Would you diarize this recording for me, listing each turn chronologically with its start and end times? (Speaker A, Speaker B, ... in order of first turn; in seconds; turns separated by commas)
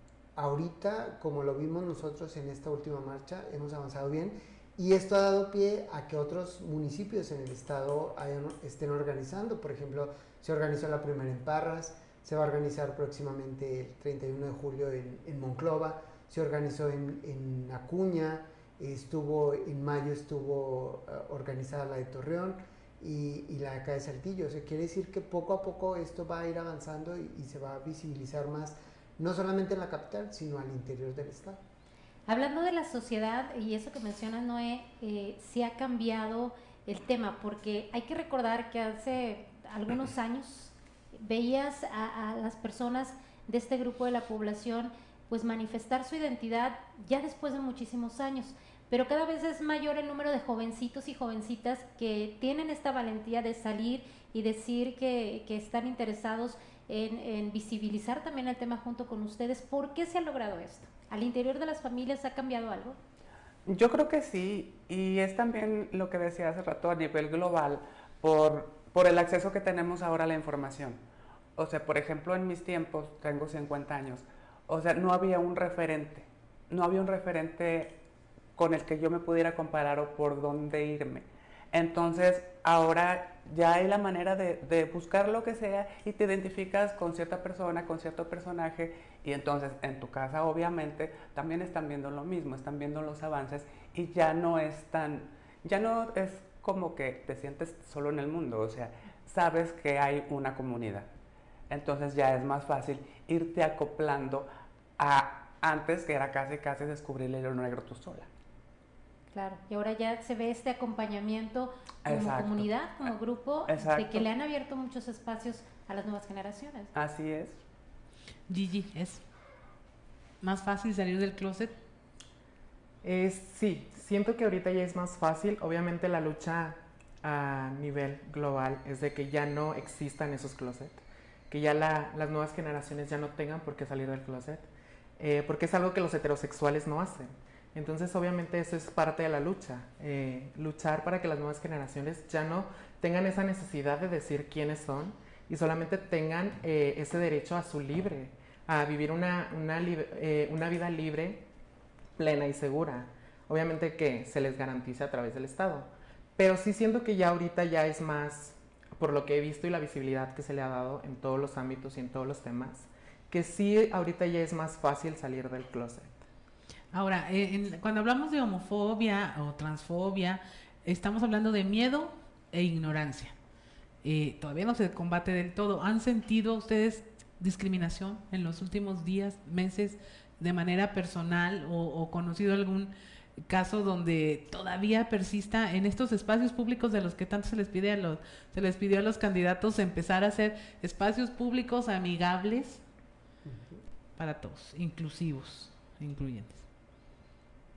Speaker A: 0.4-31.6, Speaker B: 32.3-63.0, Speaker C: 63.7-71.0, Speaker C: 71.6-78.0, Speaker C: 78.6-101.1, Speaker C: 101.7-108.3, Speaker B: 109.3-116.9, Speaker C: 112.1-112.7, Speaker C: 113.7-114.3, Speaker C: 116.9-117.6, Speaker D: 118.5-119.2, Speaker D: 120.4-121.8, Speaker E: 123.0-134.7, Speaker E: 135.2-151.5, Speaker E: 152.2-166.2, Speaker D: 166.9-173.4, Speaker D: 174.0-182.9, Speaker D: 183.5-192.8, Speaker A: 193.4-193.8, Speaker D: 194.2-196.7